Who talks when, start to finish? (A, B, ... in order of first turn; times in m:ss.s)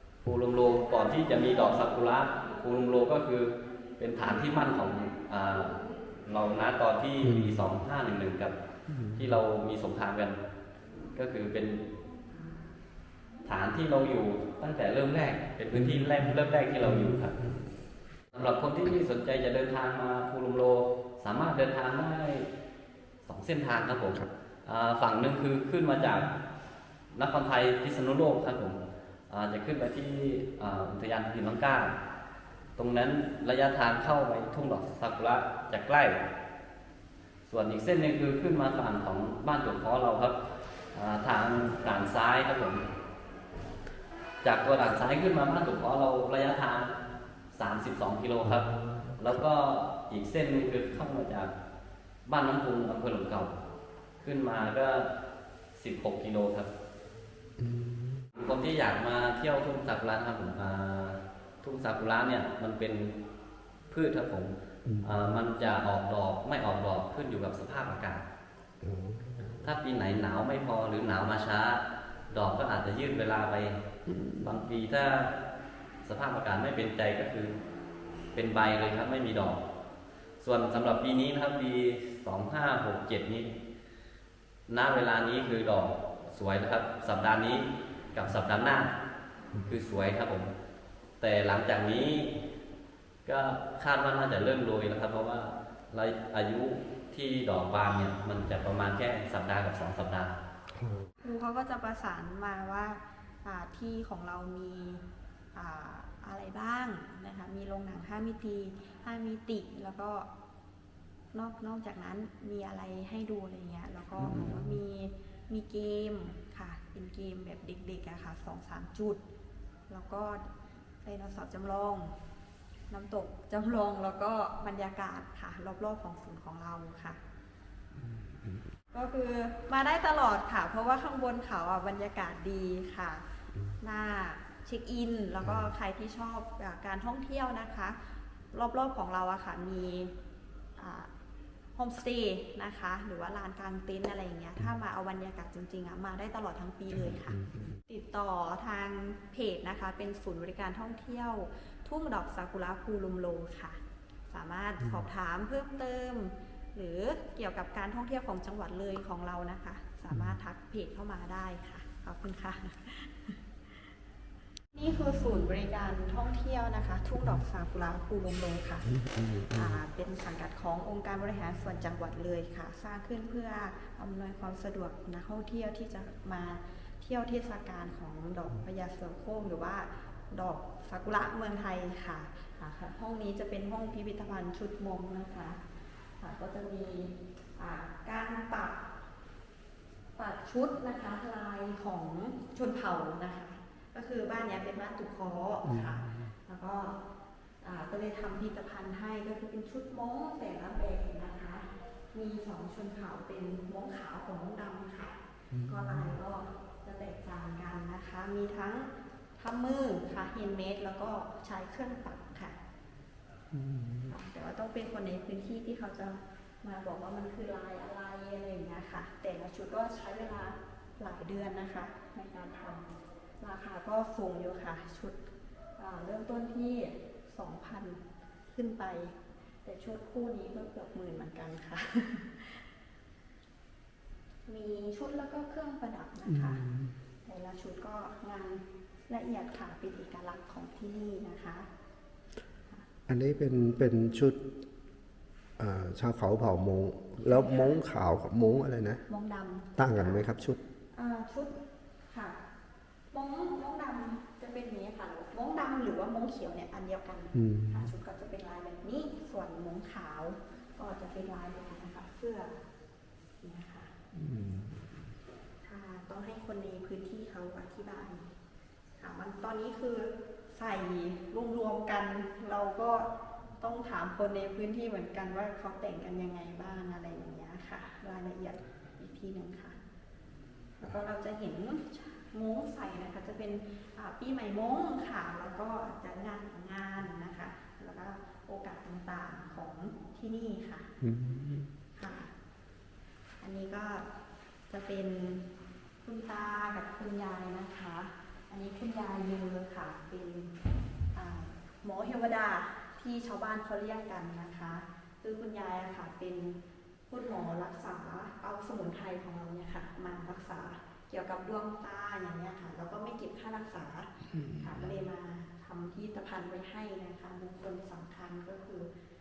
0:00.2-0:08.6 A
0:08.9-0:09.2 B
0:09.1-0:10.4 A
0:11.1-0:11.9 A
0:13.4-0:17.4 A
0:18.3-0:22.5 A
0:23.2-0:26.3 A
0:27.1-0:28.8 A
0:29.3-0:31.9 A
0:32.8-0:36.3 A
0:37.5-0:40.4 A
0:40.9-0:42.9 A
0:44.4-0:46.9 A
0:47.5-0:51.5 A
0:52.2-0:53.6 A
0:54.2-0:55.1 A
0:55.8-0:56.7 A
0:57.6-0:58.2 B
0:58.3-1:03.2 A
1:03.9-1:08.2 A
1:08.8-1:09.6 B
1:09.6-1:13.8 A
1:14.3-1:15.3 A
1:16.0-1:17.6 A
1:18.3-1:19.6 A
1:20.4-1:23.5 A
1:24.7-1:28.9 A
1:29.6-1:30.5 A
1:31.2-1:32.4 A
1:33.2-1:40.4 A
1:41.2-1:50.3 C
1:51.3-1:59.2 C
1:54.3-1:54.7 B
1:59.9-2:02.1 C
2:02.9-2:07.2 C
2:08.9-2:13.2 C
2:13.8-2:18.0 C
2:18.5-2:20.1 C
2:20.8-2:21.1 C
2:21.7-2:43.5 C
2:44.7-3:08.8 C
3:10.2-3:17.0 C
3:17.6-3:32.6 C
3:33.5-3:34.1 B
3:34.0-3:45.2 C
3:45.8-3:52.7 C
3:54.5-3:56.7 C
3:56.5-3:56.8 B
3:57.2-4:01.7 C
4:03.1-4:04.4 B
4:05.6-4:09.0 B
4:07.2-4:07.8 C
4:09.1-4:10.4 C
4:09.8-4:10.6 B
4:10.9-4:12.4 C
4:13.1-4:22.6 C
4:17.4-4:17.7 B
4:23.4-4:23.9 C
4:24.1-4:24.8 B
4:25.6-4:28.3 C
4:29.0-4:39.8 C
4:40.8-4:50.9 C
4:51.0-4:51.7 B
4:52.0-4:52.3 C
4:53.4-4:54.1 C
4:54.7-4:55.5 C
4:56.0-5:00.6 C
5:01.1-5:18.9 C